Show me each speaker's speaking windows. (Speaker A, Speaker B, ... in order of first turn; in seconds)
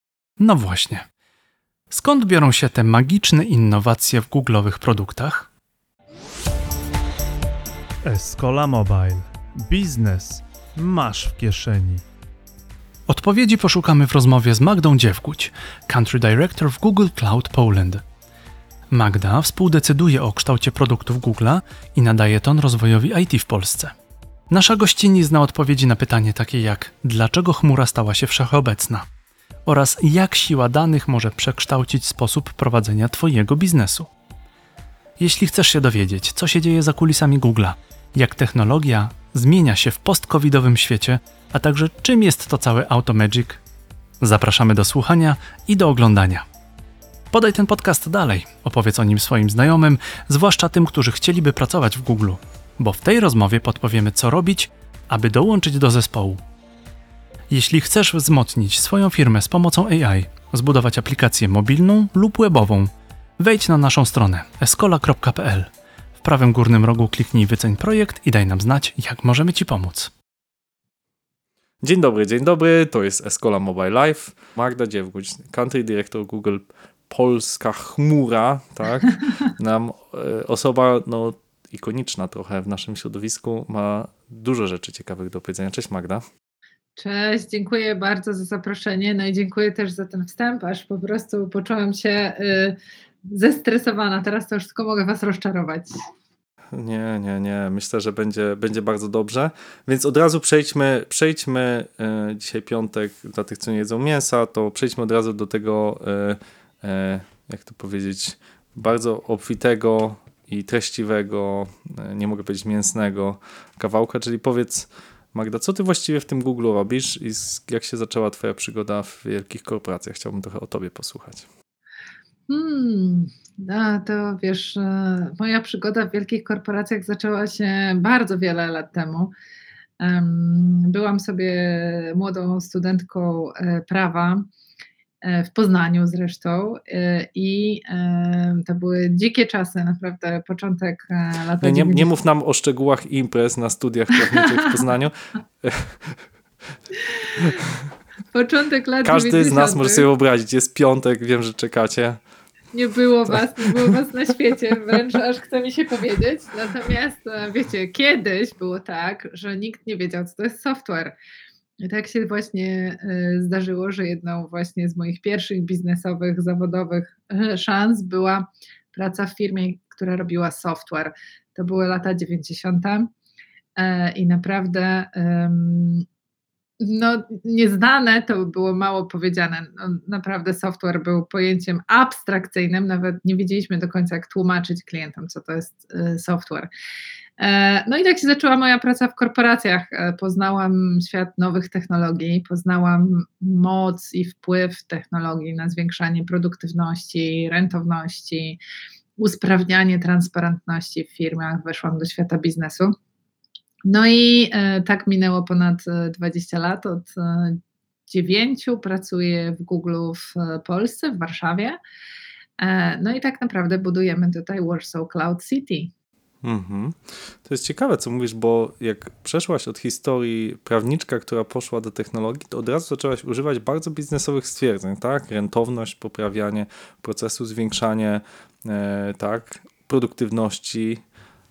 Speaker A: 0.4-1.1, 1.9-5.5, 13.1-18.0, 18.9-23.9, 24.5-29.0, 29.6-34.1, 35.2-43.6, 44.2-46.4, 47.3-56.4, 57.5-65.7, 66.2-70.1
Speaker B: 8.0-12.0
Speaker C: 71.8-86.2, 96.7-121.5, 141.6-146.2, 147.4-147.9, 149.0-152.2, 153.3-154.0, 216.4-231.0
Speaker D: 87.0-95.9, 122.5-129.3, 130.0-134.4, 135.2-142.1, 147.1-147.6, 148.3-150.1, 152.7-161.1, 161.8-173.1, 173.8-176.1, 176.8-186.7, 187.4-198.6, 199.2-202.9, 203.8-211.8, 212.6-215.9